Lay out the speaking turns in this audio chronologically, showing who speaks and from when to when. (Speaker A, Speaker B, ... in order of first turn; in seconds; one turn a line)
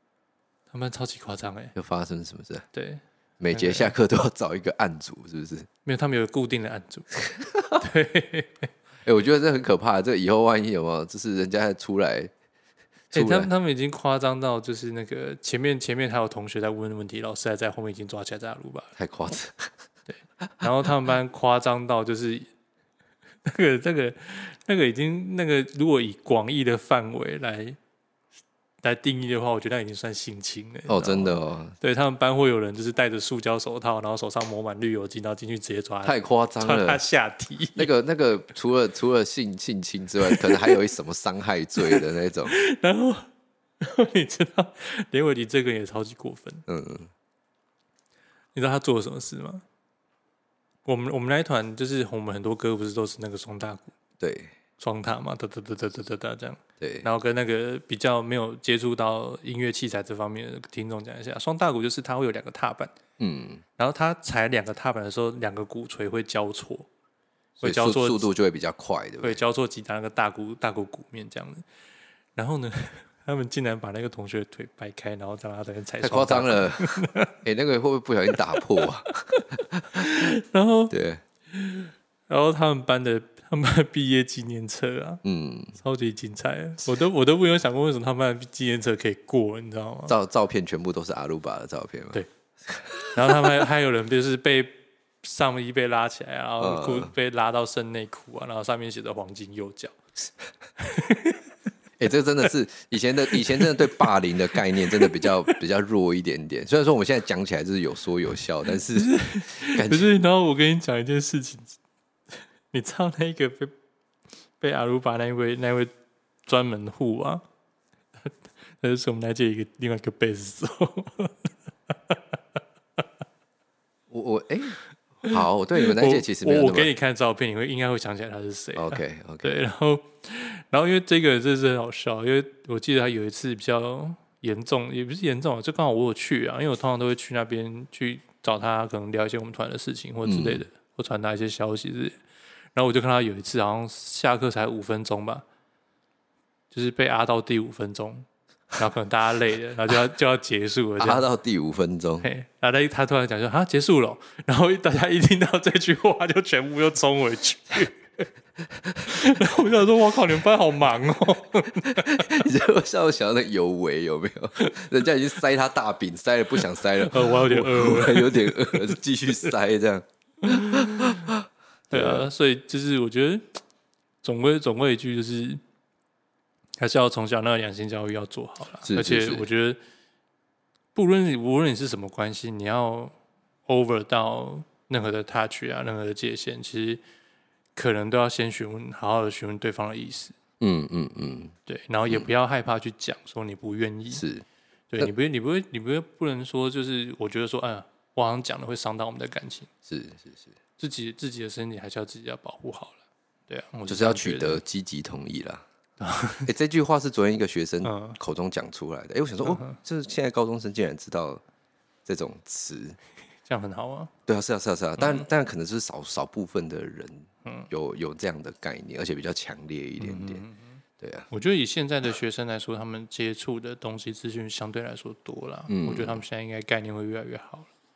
Speaker A: 0.7-1.8
Speaker B: 1.8-2.6
Speaker A: 2.7-4.0
Speaker B: 3.4-5.7
Speaker A: 5.8-7.2
Speaker A: 7.8-8.7
Speaker B: 9.1-12.3
Speaker B: 13.1-13.5
Speaker A: 13.1-18.9
Speaker B: 19.0-19.7
Speaker A: 20.1-22.5
Speaker A: 23.5-27.8
Speaker A: 28.8-37.9
Speaker B: 30.9-31.8
Speaker B: 36.0-37.0
Speaker B: 37.8-42.5
Speaker A: 40.2-40.8
Speaker A: 41.9-43.3
Speaker A: 43.8-46.6
Speaker B: 46.7-47.1
Speaker A: 48.5-49.6
Speaker A: 50.9-53.9
Speaker B: 54.2-54.5
Speaker A: 54.8-62.9
Speaker B: 56.8-57.1
Speaker B: 63.2-63.6
Speaker A: 63.8-66.9
Speaker A: 67.6-68.3
Speaker B: 67.6-69.4
Speaker A: 69.2-71.7
Speaker A: 72.4-77.3
Speaker B: 76.0-80.0
Speaker A: 78.6-78.8
Speaker A: 80.0-80.9
Speaker B: 80.9-81.2
Speaker A: 81.5-85.2
Speaker B: 85.2-85.8
Speaker A: 85.8-90.2
Speaker B: 90.1-93.4
Speaker A: 93.1-99.9
Speaker B: 96.6-97.1
Speaker A: 100.8-101.5
Speaker B: 102.0-110.1
Speaker A: 103.3-104.0
Speaker A: 104.8-105.6
Speaker A: 109.0-111.8
Speaker A: 112.7-113.7
Speaker A: 114.6-115.9
Speaker A: 116.5-117.4
Speaker A: 118.8-121.5
Speaker B: 124.1-126.9
Speaker A: 125.3-142.2
Speaker B: 128.8-129.5
Speaker B: 140.2-140.7
Speaker A: 142.8-145.4
Speaker A: 146.7-148.3
Speaker A: 148.8-151.2
Speaker B: 151.0-152.3
Speaker A: 152.2-158.3
Speaker A: 159.1-162.4
Speaker B: 161.9-171.3
Speaker A: 166.6-168.9
Speaker A: 170.5-171.2
Speaker A: 171.9-173.6
Speaker B: 171.9-172.2
Speaker A: 174.2-175.6
Speaker A: 176.8-179.8
Speaker B: 178.8-179.5
Speaker A: 180.9-183.2
Speaker A: 183.7-187.0
Speaker A: 187.8-190.4
Speaker B: 190.6-191.5
Speaker A: 191.7-194.2
Speaker B: 194.1-194.4
Speaker A: 194.9-199.7
Speaker B: 199.9-200.5
Speaker A: 200.8-204.6
Speaker B: 203.9-205.7
Speaker A: 206.0-206.5
Speaker B: 206.4-211.4
Speaker A: 207.8-208.2
Speaker A: 209.4-209.8
Speaker B: 212.1-213.0
Speaker A: 213.5-214.1
Speaker B: 214.3-220.4
Speaker A: 215.0-215.3
Speaker A: 217.4-217.7
Speaker A: 220.0-227.7
Speaker B: 221.0-221.3
Speaker B: 225.7-226.2